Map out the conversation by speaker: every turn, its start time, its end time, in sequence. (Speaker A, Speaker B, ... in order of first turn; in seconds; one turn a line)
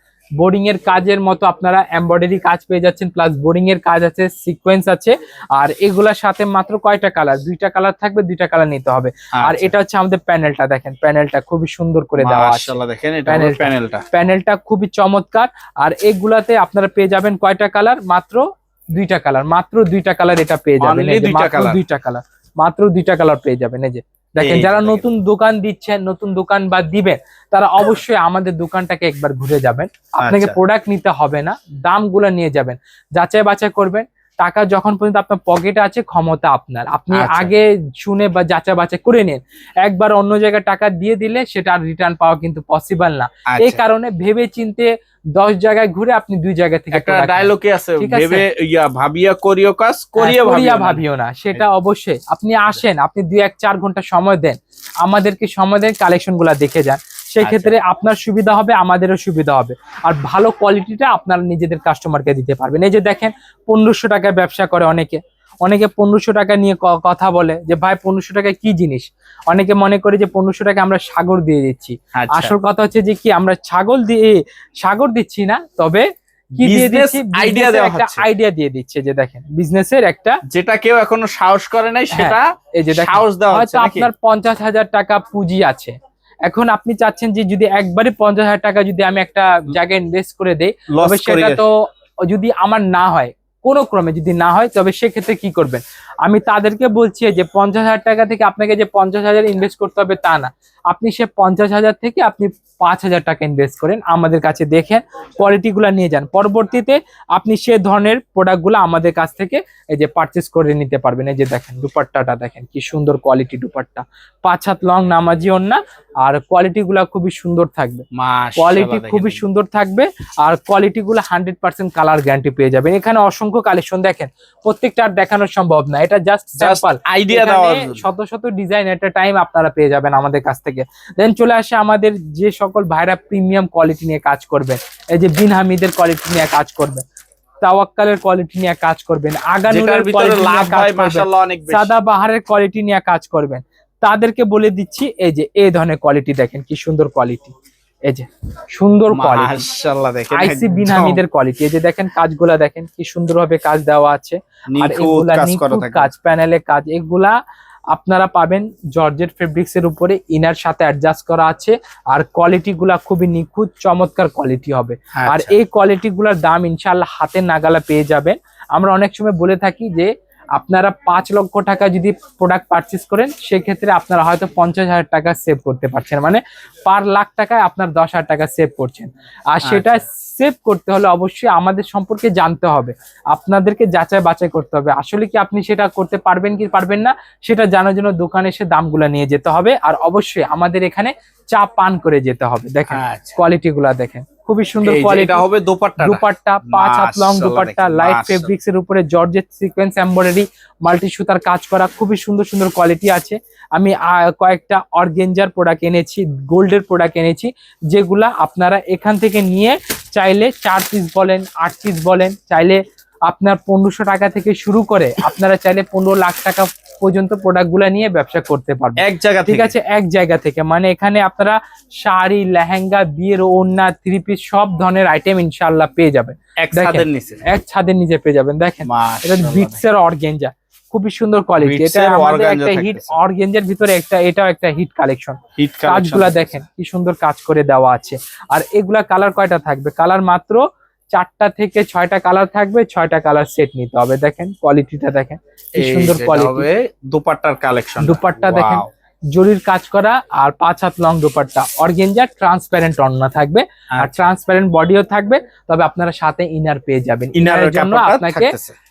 Speaker A: 0.4-18.4
Speaker B: 9.3-9.7
Speaker B: 12.2-14.1
Speaker A: 18.9-48.4
Speaker B: 20.8-21.8
Speaker B: 24.4-25.1
Speaker B: 30.2-30.6
Speaker B: 37.1-37.5
Speaker B: 43.5-43.8
Speaker B: 46.9-51.0
Speaker A: 50.2-76.1
Speaker B: 57.4-57.8
Speaker B: 72.2-72.5
Speaker A: 76.6-80.4
Speaker B: 76.6-78.3
Speaker B: 80.5-84.1
Speaker A: 82.1-118.0
Speaker B: 90.9-91.6
Speaker B: 118.1-119.4
Speaker A: 118.6-137.0
Speaker B: 126.6-128.0
Speaker A: 137.6-147.6
Speaker B: 139.7-141.9
Speaker A: 148.1-149.6
Speaker B: 149.1-151.2
Speaker A: 150.3-157.4
Speaker B: 154.7-156.1
Speaker A: 157.9-195.4
Speaker B: 165.2-165.6
Speaker B: 179.6-180.0
Speaker B: 192.9-193.4
Speaker B: 194.8-198.5
Speaker A: 196.0-246.7
Speaker B: 219.0-219.7
Speaker B: 226.6-227.4
Speaker B: 228.8-229.8
Speaker B: 231.6-233.2
Speaker B: 235.6-236.6
Speaker B: 245.8-248.9
Speaker A: 248.0-258.6
Speaker B: 254.0-254.3
Speaker B: 257.4-258.8